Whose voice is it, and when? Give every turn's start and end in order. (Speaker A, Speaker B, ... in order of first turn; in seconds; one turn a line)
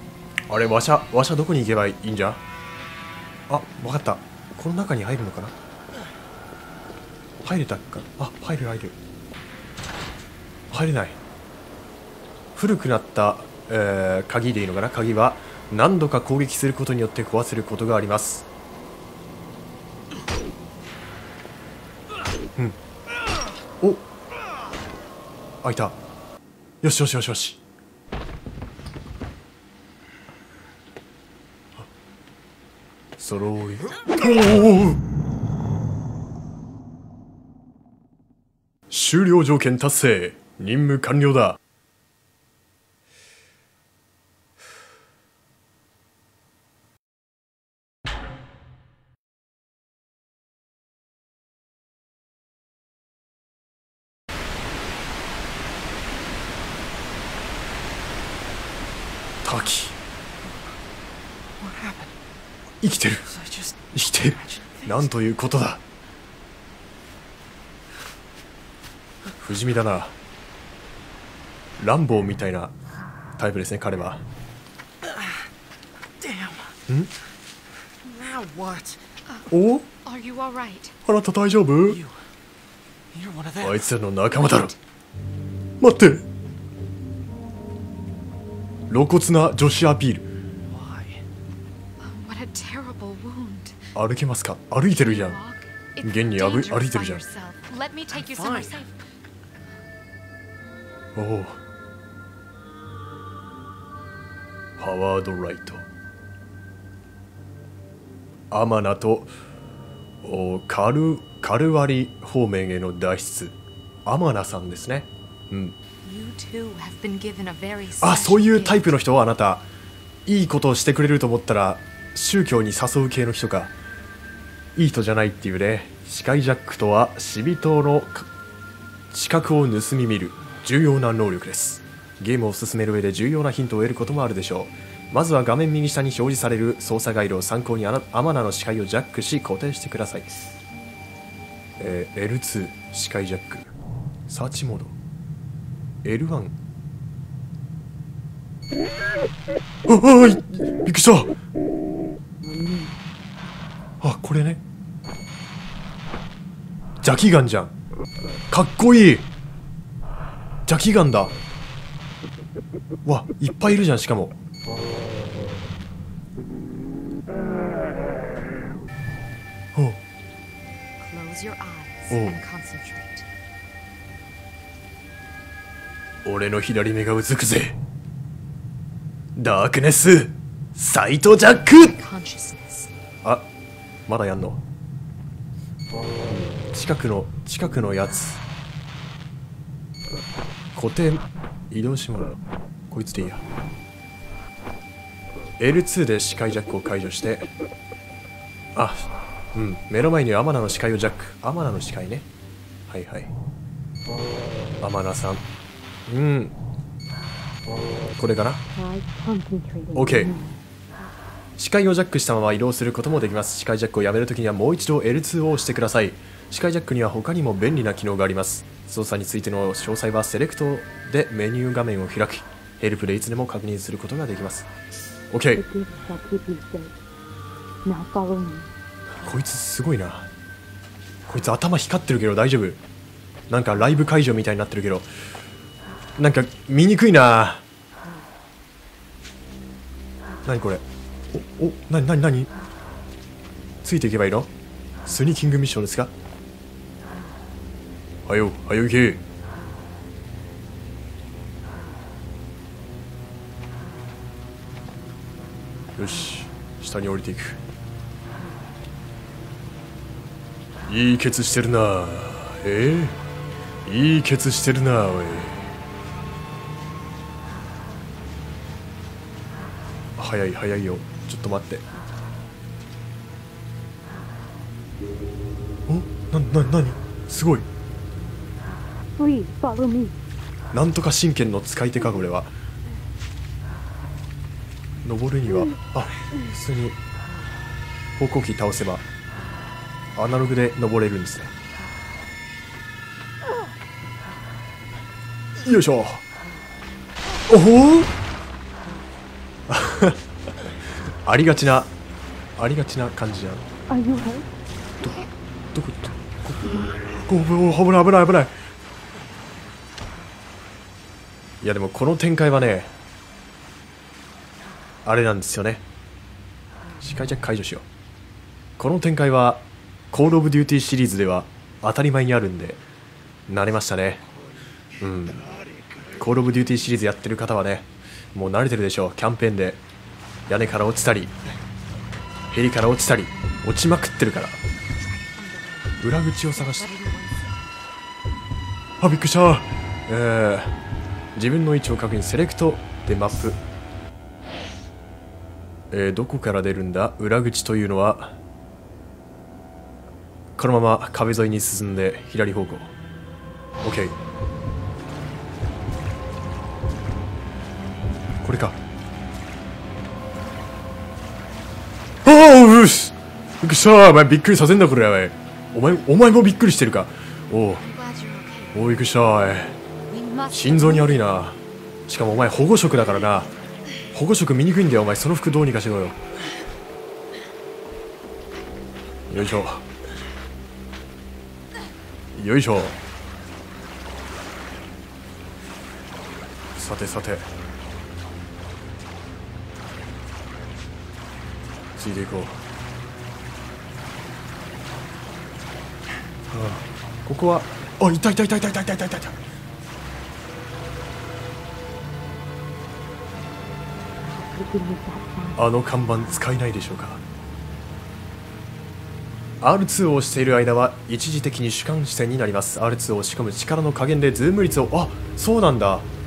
Speaker A: 0.5-2.4
Speaker A: 3.5-5.5
Speaker A: 7.4-9.0
Speaker A: 10.7-11.2
Speaker A: 12.6-18.5
Speaker A: 23.8-24.1
Speaker A: 25.6-26.0
Speaker A: 26.8-27.6
Speaker A: 33.2-35.0
Speaker A: 38.9-41.6
Speaker A: 59.4-60.0
Speaker B: 61.6-62.1
Speaker A: 62.8-63.4
Speaker A: 63.9-65.8
Speaker A: 69.3-70.2
Speaker A: 71.8-72.8
Speaker A: 73.4-74.2
Speaker B: 76.2-76.7
Speaker B: 78.0-79.0
Speaker A: 79.5-79.9
Speaker C: 80.0-81.0
Speaker A: 81.0-82.0
Speaker B: 83.1-83.7
Speaker A: 83.6-84.8
Speaker A: 85.8-86.2
Speaker A: 88.9-90.3
Speaker B: 90.7-91.2
Speaker C: 92.0-93.8
Speaker A: 94.0-95.4
Speaker C: 95.0-99.0
Speaker A: 96.0-97.2
Speaker B: 98.2-98.8
Speaker A: 101.2-101.6
Speaker A: 104.8-105.8
Speaker A: 108.5-109.3
Speaker A: 110.2-115.8
Speaker C: 116.0-119.0
Speaker A: 118.0-119.7
Speaker A: 120.3-123.7
Speaker A: 124.8-128.3
Speaker A: 129.1-140.3
Speaker A: 141.8-143.7
Speaker A: 144.3-145.0
Speaker A: 146.0-146.6
Speaker A: 149.9-151.3
Speaker D: 152.4-152.9
Speaker A: 154.0-154.6
Speaker A: 157.0-157.7
Speaker A: 158.5-159.3
Speaker A: 160.7-161.3
Speaker A: 163.1-164.3
Speaker A: 169.8-170.0
Speaker C: 171.0-173.3
Speaker A: 172.1-172.4
Speaker A: 176.2-177.8
Speaker A: 179.4-182.0
Speaker C: 181.7-182.9
Speaker A: 184.1-184.6
Speaker A: 186.3-188.4
Speaker A: 190.8-193.4
Speaker A: 195.6-197.5
Speaker A: 198.8-202.3
Speaker A: 202.9-203.3
Speaker A: 204.8-205.4
Speaker A: 206.1-206.6
Speaker A: 208.2-208.6
Speaker D: 208.8-210.6
Speaker A: 209.9-210.3
Speaker A: 211.6-224.7
Speaker A: 225.3-225.6
Speaker D: 225.6-226.9
Speaker D: 227.8-228.7
Speaker A: 229.2-230.3
Speaker A: 231.3-232.8
Speaker A: 233.5-235.1
Speaker A: 236.2-237.6
Speaker A: 240.4-242.5
Speaker A: 243.8-244.5
Speaker A: 245.0-246.1
Speaker A: 248.3-249.2
Speaker A: 256.0-257.6
Speaker A: 260.9-263.2
Speaker A: 263.9-265.7
Speaker A: 270.2-271.8
Speaker A: 275.9-277.7
Speaker D: 279.2-280.2
Speaker A: 280.7-282.5
Speaker A: 285.0-287.0
Speaker A: 288.2-289.1
Speaker A: 290.2-291.5
Speaker A: 295.6-296.2
Speaker A: 297.5-298.1
Speaker A: 299.7-300.2
Speaker A: 301.3-301.9
Speaker A: 302.6-303.7
Speaker D: 303.9-304.5
Speaker A: 305.0-306.6
Speaker A: 307.2-308.5
Speaker A: 311.6-312.9
Speaker A: 315.1-315.9
Speaker A: 317.0-317.9
Speaker A: 318.8-322.8
Speaker A: 323.5-324.2
Speaker A: 325.0-325.4
Speaker A: 326.2-329.8
Speaker A: 330.5-331.4
Speaker A: 332.5-334.6
Speaker C: 335.0-337.6
Speaker A: 336.0-336.9
Speaker A: 339.0-340.8
Speaker A: 341.4-343.6
Speaker A: 345.9-348.4
Speaker A: 350.6-352.9
Speaker A: 353.8-354.2
Speaker A: 358.4-358.8
Speaker A: 362.2-367.9
Speaker C: 367.8-368.8
Speaker A: 368.7-369.8
Speaker C: 370.1-371.4
Speaker A: 370.5-373.5
Speaker A: 374.1-376.2
Speaker A: 379.3-379.9
Speaker A: 382.3-383.0
Speaker A: 386.8-387.5
Speaker A: 392.0-392.6
Speaker A: 396.5-399.4
Speaker D: 404.2-405.7
Speaker A: 405.6-407.2
Speaker A: 409.6-416.1